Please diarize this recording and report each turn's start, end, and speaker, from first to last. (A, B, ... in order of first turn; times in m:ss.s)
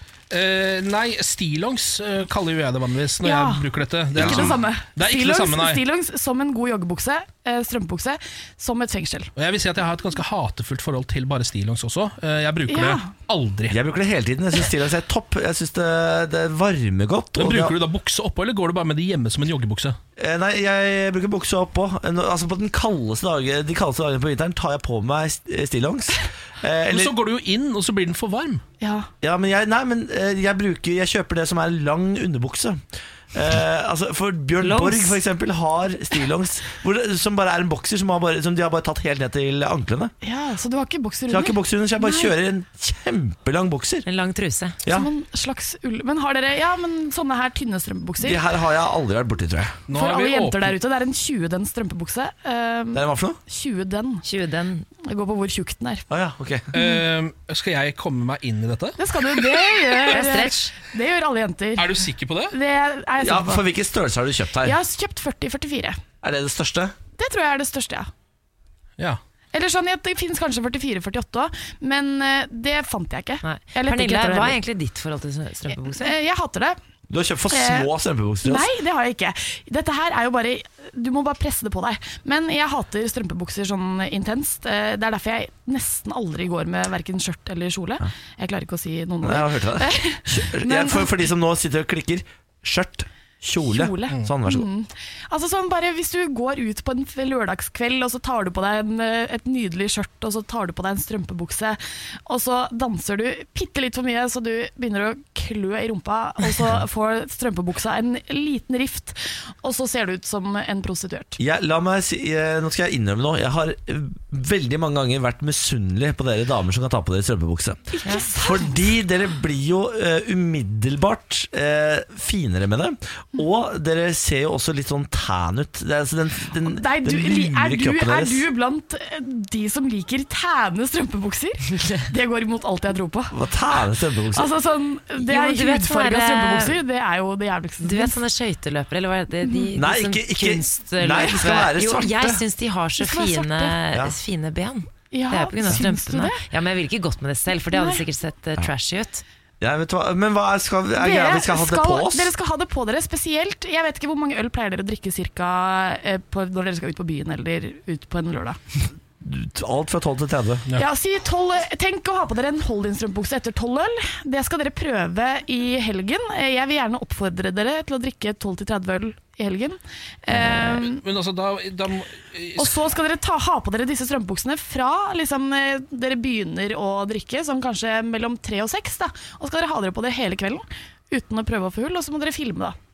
0:00.3-0:05.8 A
0:03.2-0:09.3 B
0:04.1-0:04.5 C
0:09.4-0:13.8 A
0:12.7-0:13.1 B
0:13.7-0:17.8 C
0:17.4-0:20.0 A
0:20.2-0:27.1 C
0:26.9-0:28.6 A
0:28.8-0:29.1 B
0:29.2-0:32.8 C
0:33.3-0:40.1 C
0:34.6-0:35.2 D
0:40.2-0:42.3 B
0:41.3-0:44.0 C
0:44.0-0:44.8 D
0:44.8-0:48.4 B
0:48.2-0:49.8 C
0:49.9-0:50.8 A
0:49.9-0:54.2 B
0:52.9-0:53.4 C
0:54.2-0:54.9 D
0:55.0-0:56.0 B
0:56.1-0:56.7 C
0:56.7-0:59.4 A
0:56.7-0:57.0 B
0:59.0-1:03.6 B
1:00.1-1:00.7 D
1:01.8-1:02.5 A
1:03.2-1:04.8 C
1:04.6-1:06.0 B
1:06.2-1:06.9 C
1:07.2-1:08.1 B
1:09.5-1:14.6 B
1:13.4-1:16.2 D
1:15.7-1:16.8 B
1:17.1-1:18.7 C
1:17.5-1:17.9 B
1:18.4-1:31.1 B
1:29.2-1:34.6 C
1:33.6-1:51.4 B
1:51.4-1:57.8 C
1:57.9-1:58.9 B
1:58.0-1:58.3 D
1:58.4-2:08.5 C
2:06.6-2:13.3 B
2:13.3-2:14.5 C
2:14.3-2:18.2 B
2:15.2-2:16.8 D
2:17.8-2:29.2 D
2:19.4-2:19.7 B
2:19.7-2:22.4 C
2:23.0-2:23.8 B
2:25.1-2:26.4 B
2:27.7-2:28.0 B
2:29.6-2:32.3 C
2:31.0-2:38.6 B
2:39.2-2:40.6 C
2:40.7-2:51.0 B
2:50.7-2:52.9 A
2:52.6-3:02.8 B